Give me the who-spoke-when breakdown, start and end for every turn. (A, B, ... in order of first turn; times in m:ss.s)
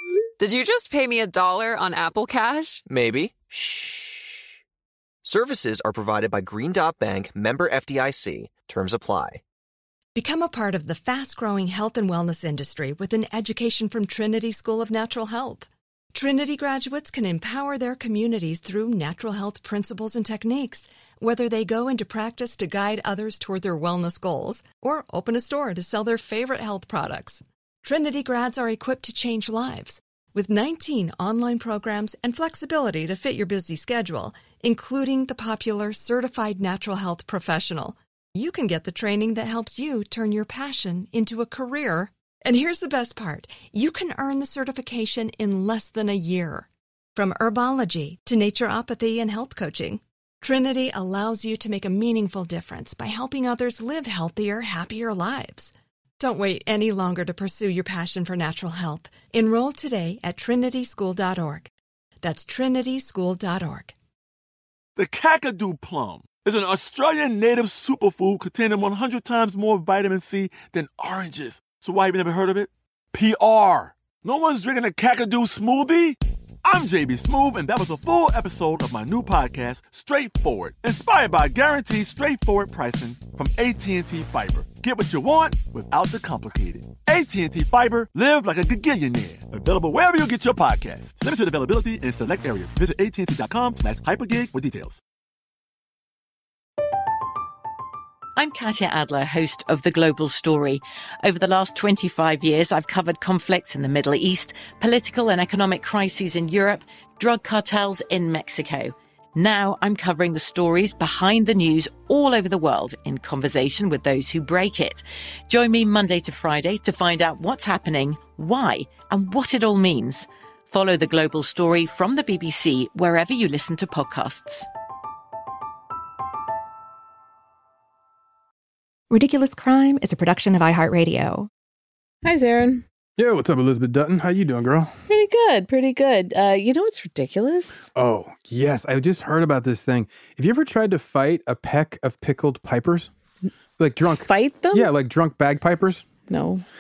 0:00.4-0:02.8 A
0:02.9-0:04.0 B
0:05.2-0:09.4 B
0:10.2-1:01.7 C
1:02.2-1:03.9 C
1:05.0-1:35.0 D
1:38.4-2:04.7 E
2:09.1-2:11.5 F
2:12.2-2:12.8 G
2:13.2-2:14.9 H
2:15.1-2:17.9 G
2:18.0-2:23.1 H
2:23.8-2:26.0 H
2:24.2-2:24.9 G
2:26.3-2:26.6 G